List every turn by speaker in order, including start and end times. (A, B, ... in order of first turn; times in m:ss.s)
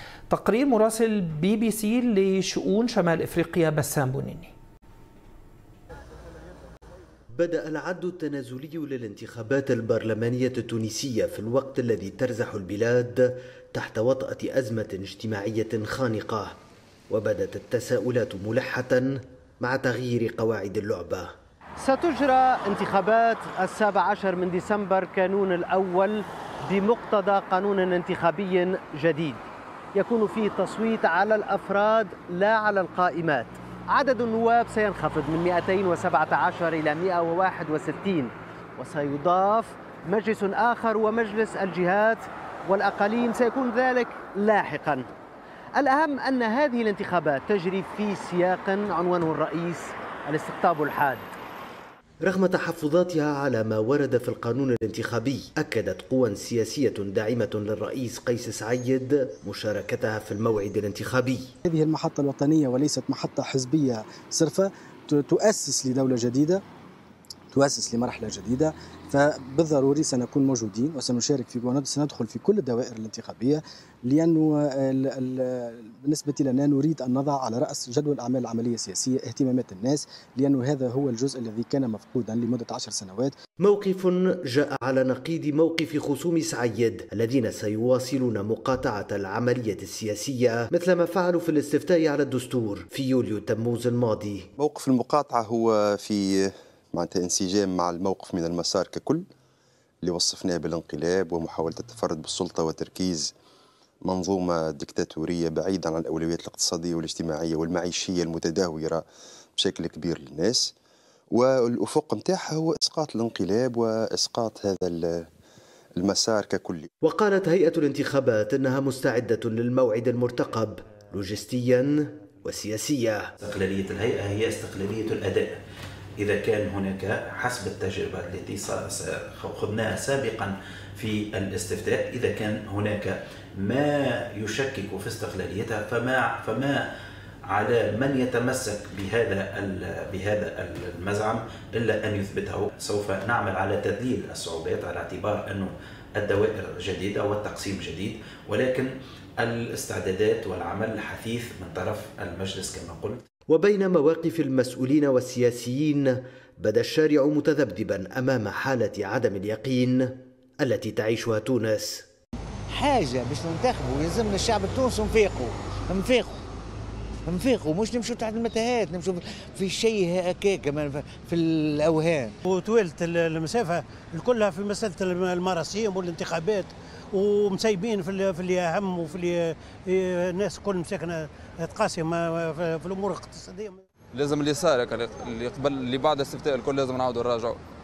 0:00.3-0:04.5 A
0:07.4-0:16.6 B
0:17.1-0:21.3 B
0:22.0-0:26.2 C
0:26.8-0:29.4 C
0:30.3-0:33.3 C
0:34.0-0:38.3 C
0:39.2-0:42.2 C
0:42.8-0:45.0 C
0:45.8-0:51.1 C
0:52.2-1:01.5 B
1:01.6-1:06.6 D
1:07.5-1:23.4 D
1:23.6-1:34.5 B
1:34.6-1:39.2 E
1:40.0-1:43.3 E
1:44.0-1:49.0 E
1:49.6-1:50.7 E
1:51.3-1:55.3 E
1:56.0-1:56.9 E
1:57.0-2:03.3 B
2:03.4-2:05.6 F
2:06.2-2:16.9 F
2:17.5-2:28.9 F
2:29.4-2:33.2 F
2:33.5-2:42.0 B
2:42.7-2:46.4 G
2:47.3-2:52.3 G
2:52.5-3:03.8 H
3:04.1-3:07.6 I